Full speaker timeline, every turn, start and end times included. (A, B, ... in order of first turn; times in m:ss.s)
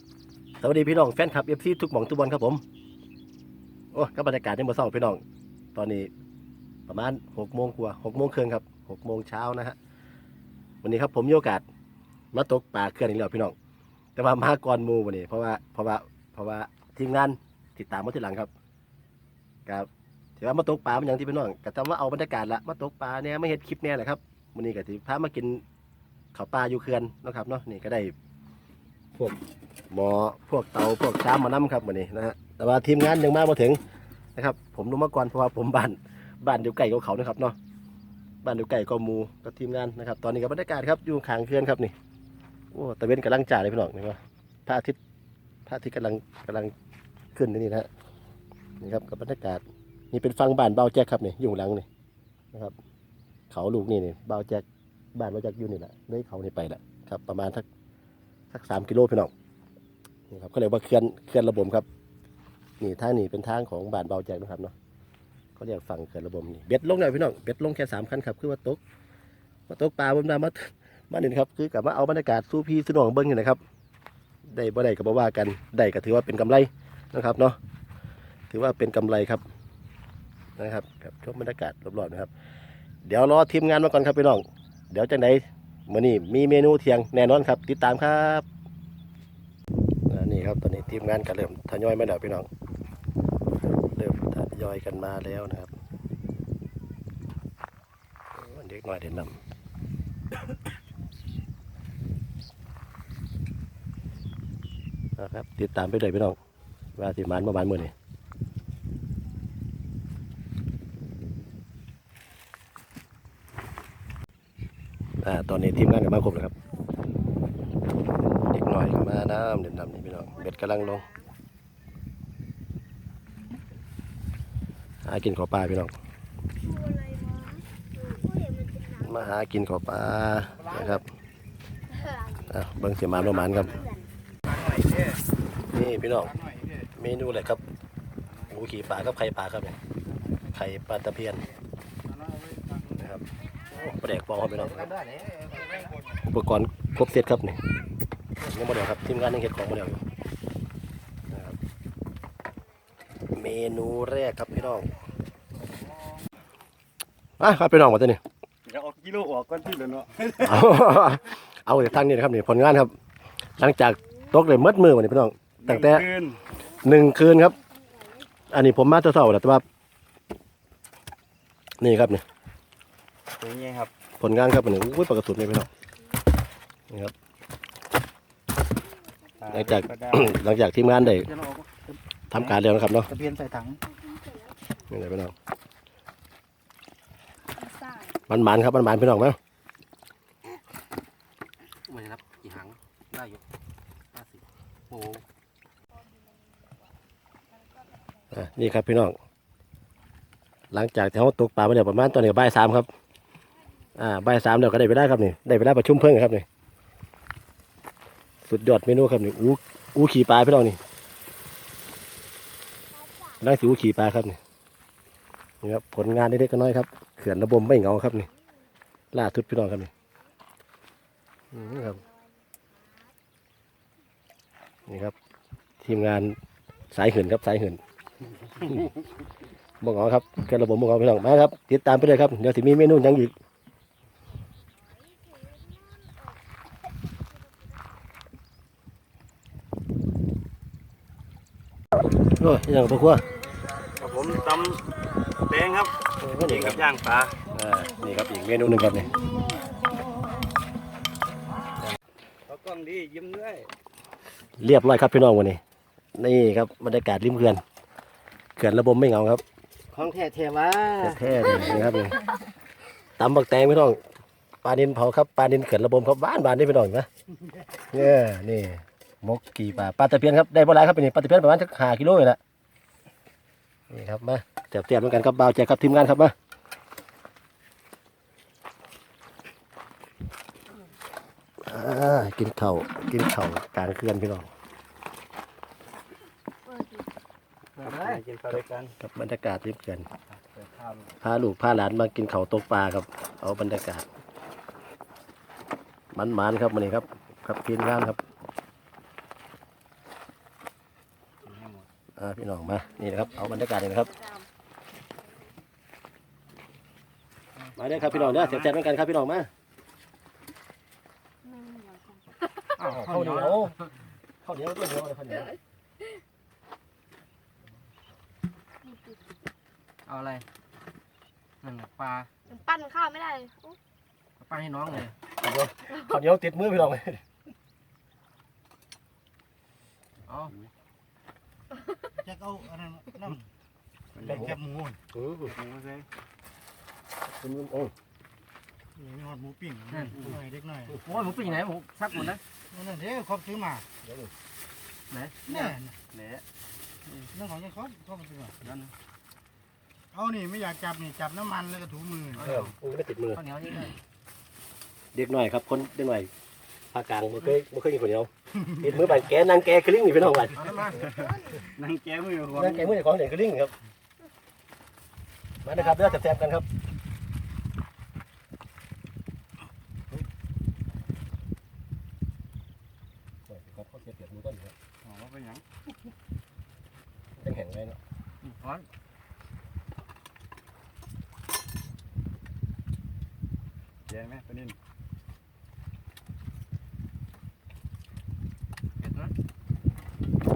0:00.6-0:02.6 A
0:03.9-0:05.2 A
0:05.7-0:06.1 A
0:06.9-0:09.8 A
0:10.8-0:11.6 A
0:12.3-0:13.5 A
0:14.2-0:18.5 A
0:19.6-0:25.6 A
0:26.3-0:28.1 A
0:29.9-0:33.8 A
0:34.4-0:37.6 A
0:38.4-0:41.9 A
0:42.7-0:45.0 A
0:45.6-0:46.7 A
0:47.3-0:47.9 A
0:48.8-0:51.9 A
0:53.5-0:54.6 A
0:55.1-0:57.6 A
0:58.5-0:59.3 A
1:00.3-1:01.8 A
1:02.8-1:04.7 A
1:05.6-1:08.8 A
1:09.7-1:13.6 A
1:14.4-1:17.6 A
1:18.5-1:19.4 A
1:20.6-1:22.3 A
1:23.0-1:28.4 A
1:30.1-1:32.5 A
1:33.8-1:35.7 A
1:38.3-1:39.3 A
1:45.2-1:46.4 A
1:47.0-1:47.9 A
1:55.2-1:56.5 A
1:58.3-2:01.1 A
2:05.0-2:05.9 A
2:06.7-2:09.0 B
2:09.0-2:11.0 A
2:12.0-2:12.4 B
2:12.4-2:13.8 A
2:13.7-2:14.1 B
2:15.7-2:17.6 A
2:18.5-2:19.8 A
2:20.4-2:21.4 A
2:22.3-2:22.8 C
2:22.9-2:24.9 A
2:25.0-2:25.7 D
2:26.1-2:27.6 A
2:28.4-2:30.0 A
2:31.3-2:31.6 A
2:33.3-2:34.9 A
2:37.4-2:38.2 A
2:38.6-2:40.6 C
2:40.4-2:42.9 A
2:43.6-2:46.0 A
2:45.6-2:46.4 C
2:46.8-2:47.6 A
2:47.9-2:48.2 B
2:48.5-2:49.6 A
2:51.8-2:52.2 A
2:53.4-2:53.9 C
2:54.2-2:55.7 A
2:59.4-3:00.4 C
2:59.5-3:01.3 A
3:02.3-3:03.1 A
3:03.8-3:04.5 B
3:04.9-3:05.3 A
3:08.3-3:09.4 A
3:11.8-3:13.4 D
3:14.1-3:15.2 D
3:18.3-3:19.2 A
3:20.7-3:22.9 A
3:24.0-3:26.4 A
3:28.4-3:30.8 A
3:32.9-3:33.4 B
3:33.4-3:34.4 A
3:35.6-3:38.3 A
3:39.1-3:39.9 A
3:41.5-3:42.0 A
3:41.6-3:43.1 B
3:44.9-3:45.1 A
3:45.8-3:46.4 A
3:46.9-3:47.8 A
3:48.6-3:48.9 A
3:49.8-3:53.3 A
3:55.3-3:55.8 B
4:02.4-4:03.2 A
4:03.9-4:07.4 C
4:06.2-4:06.8 A
4:07.5-4:09.2 A
4:12.5-4:13.7 C
4:14.6-4:15.6 A
4:16.2-4:17.6 A
4:18.6-4:19.4 A
4:19.9-4:21.2 C
4:21.0-4:22.2 A
4:23.2-4:24.0 A
4:24.6-4:27.1 A
4:27.9-4:32.4 A
4:33.9-4:36.3 A
4:41.6-4:44.5 A
4:46.6-4:47.0 B
4:47.8-4:49.0 C
4:47.8-4:48.2 D
4:49.0-4:50.1 A
4:50.3-4:51.1 C
4:51.2-4:54.0 A
4:56.1-4:58.2 A
5:01.4-5:01.8 C
5:02.2-5:04.1 A
5:04.1-5:04.4 B
5:07.8-5:09.5 A
5:08.1-5:08.6 D
5:11.4-5:12.2 B
5:12.7-5:13.7 D
5:12.8-5:13.7 A
5:14.4-5:15.5 A
5:18.8-5:19.2 B
5:20.0-5:20.4 D
5:21.6-5:22.3 D
5:22.5-5:23.8 B
5:24.4-5:25.1 D
5:25.4-5:27.2 A
5:30.2-5:30.5 D
5:32.3-5:33.3 E
5:34.1-5:34.5 C
5:34.3-5:34.6 A
5:35.1-5:35.5 A
5:35.4-5:36.1 C
5:37.3-5:37.9 A
5:39.0-5:39.8 E
5:39.8-5:42.4 D
5:42.9-5:43.8 E
5:44.0-5:44.3 A
5:45.1-5:45.8 D
5:45.7-5:46.4 C
5:47.0-5:47.5 D
5:47.5-5:48.4 E
5:48.6-5:48.9 D
5:50.1-5:52.2 E
5:52.3-5:52.7 D
5:52.4-5:53.4 A
5:53.3-5:53.9 D
5:55.1-5:56.3 A
5:56.9-6:00.9 A
6:00.6-6:01.1 D
6:00.9-6:02.9 C
6:01.1-6:01.6 B
6:02.5-6:03.7 A
6:05.6-6:06.6 A
6:13.5-6:14.7 A
6:15.0-6:15.6 C
6:17.4-6:18.0 A
6:18.4-6:18.9 D
6:24.1-6:24.8 C
6:29.0-6:29.3 D